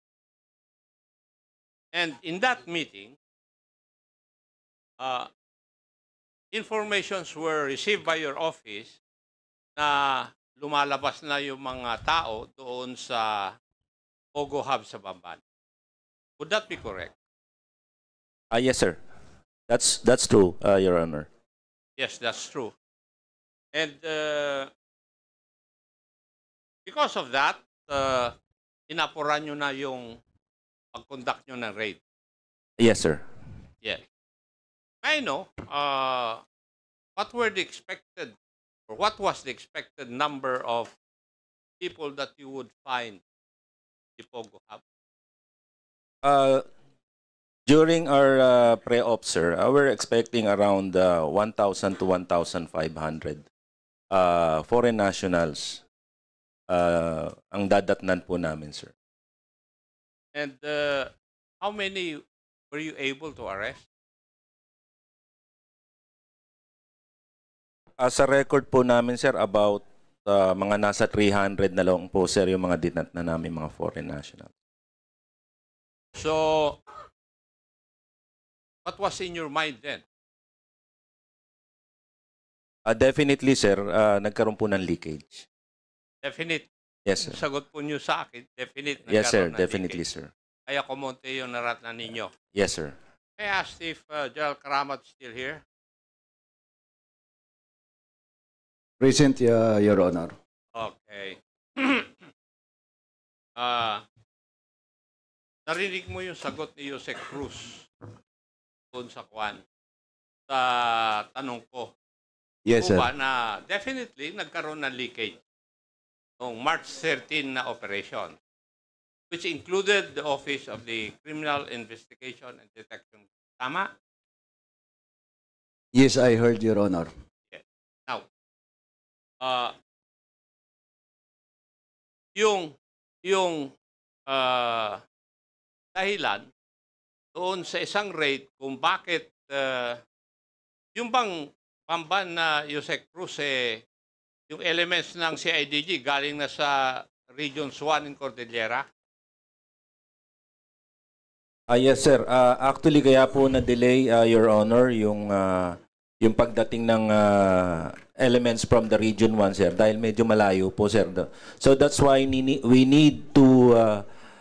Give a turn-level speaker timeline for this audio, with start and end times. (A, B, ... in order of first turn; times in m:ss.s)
0:01.9-0:03.2 A
0:05.0-0:05.3 A
0:06.5-0:09.0 A
0:09.8-0:13.6 A
0:14.3-0:15.4 A
0:16.4-0:17.1 A
0:18.5-0:19.0 B
0:19.7-0:21.3 B
0:22.0-0:22.7 A
0:23.7-0:24.7 A
0:26.8-0:28.3 A
0:28.9-0:30.2 A
0:30.9-0:32.0 A
0:32.8-0:33.2 B
0:35.0-0:36.4 A
0:37.2-0:38.3 A
0:38.9-0:40.9 A
0:41.8-0:43.2 A
0:44.2-0:44.8 A
0:46.2-0:46.6 B
0:47.7-0:53.4 B
0:54.1-0:55.8 B
0:56.7-0:58.9 B
1:00.3-1:03.8 A
1:08.0-1:14.5 B
1:16.2-1:16.8 A
1:18.8-1:20.0 A
1:22.8-1:25.5 B
1:26.2-1:26.7 A
1:27.0-1:27.4 B
1:27.2-1:30.0 A
1:29.1-1:30.3 B
1:30.7-1:32.3 A
1:32.5-1:33.0 B
1:33.4-1:35.6 A
1:39.0-1:40.3 C
1:40.7-1:42.3 A
1:43.6-1:44.0 A
1:45.7-1:47.9 A
1:48.9-1:49.6 A
1:50.5-1:51.9 A
1:52.7-1:53.1 C
1:52.8-1:55.4 A
1:56.4-1:58.4 A
1:59.3-2:03.9 A
2:05.9-2:07.1 C
2:07.5-2:08.2 A
2:09.4-2:09.7 A
2:12.4-2:13.7 A
2:14.3-2:15.0 A
2:16.0-2:16.5 A
2:17.3-2:20.0 A
2:21.0-2:23.8 A
2:24.5-2:28.8 A
2:31.7-2:44.0 B